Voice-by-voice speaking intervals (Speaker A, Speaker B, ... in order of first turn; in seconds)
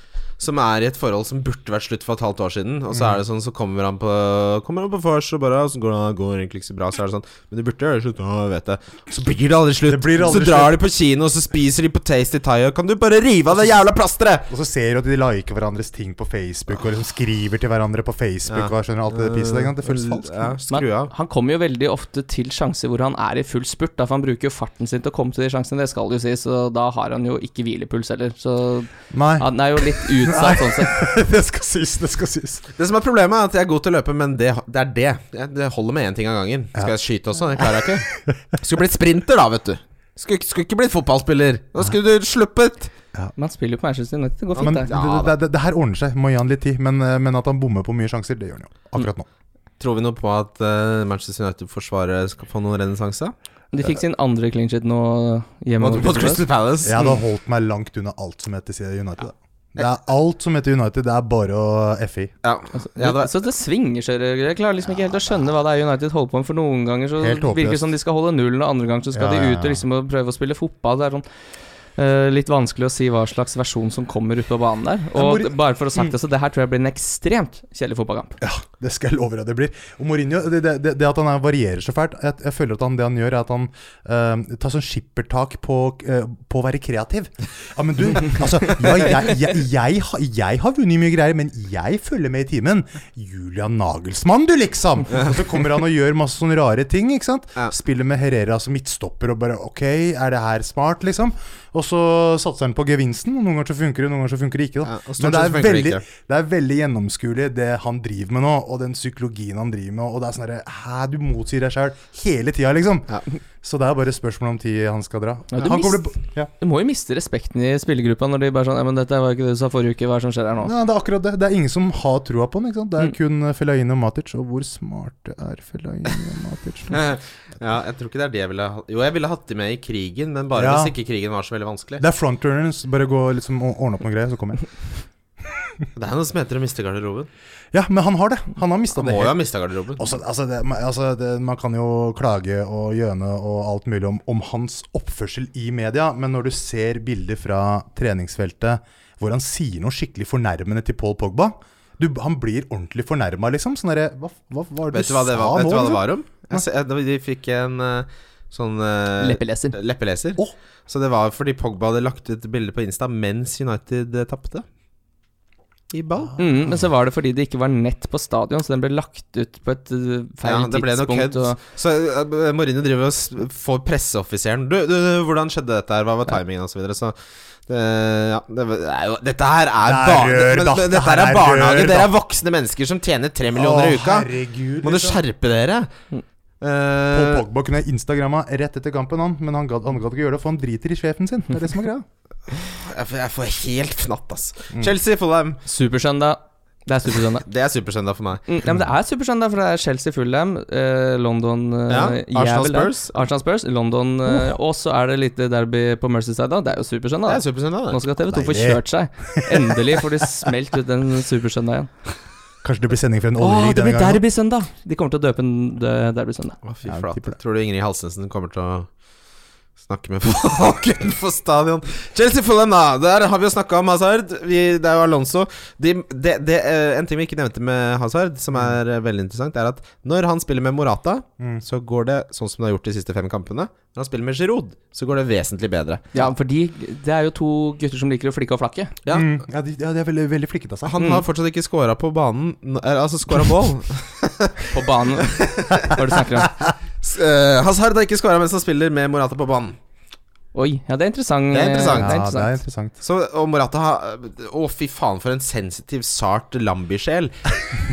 Speaker A: 0.4-14.5, 18.5-21.1, 32.8-42.9, 44.6-45.4, 49.8-53.3, 55.8-57.2, 62.4-63.3, 104.8-106.0, 126.9-132.0, 135.9-137.3, 138.9-140.1, 154.9-164.7, 165.9-166.4, 170.4-177.2, 177.7-185.9, 186.6-187.4, 192.5-195.6, 197.4-198.5, 201.9-203.2, 207.3-208.0, 216.6-218.9, 219.8-236.2, 240.8-246.0, 247.0-249.8, 251.5-252.2, 253.0-257.5
Speaker B: 2.9-3.2, 9.9-10.8, 14.5-20.5, 29.1-32.6, 37.6-38.4, 44.6-49.3, 56.8-62.3, 67.2-67.9, 69.1-69.8, 75.2-76.1, 78.4-116.5, 120.6-127.0, 130.6-130.9, 132.0-134.8, 137.7-139.4, 140.0-156.6, 179.8-182.1, 183.5-185.2, 187.1-192.1, 208.3-210.0, 212.6-214.2, 216.9-217.3, 239.1-241.0, 252.0-252.9
Speaker C: 20.7-31.0, 43.4-44.9, 53.7-56.5, 62.8-71.2, 72.0-78.4, 115.5-120.7, 159.2-159.8, 166.4-171.6, 195.7-197.4, 198.5-211.9, 213.4-216.6, 236.1-238.9, 244.7-246.5, 250.6-252.5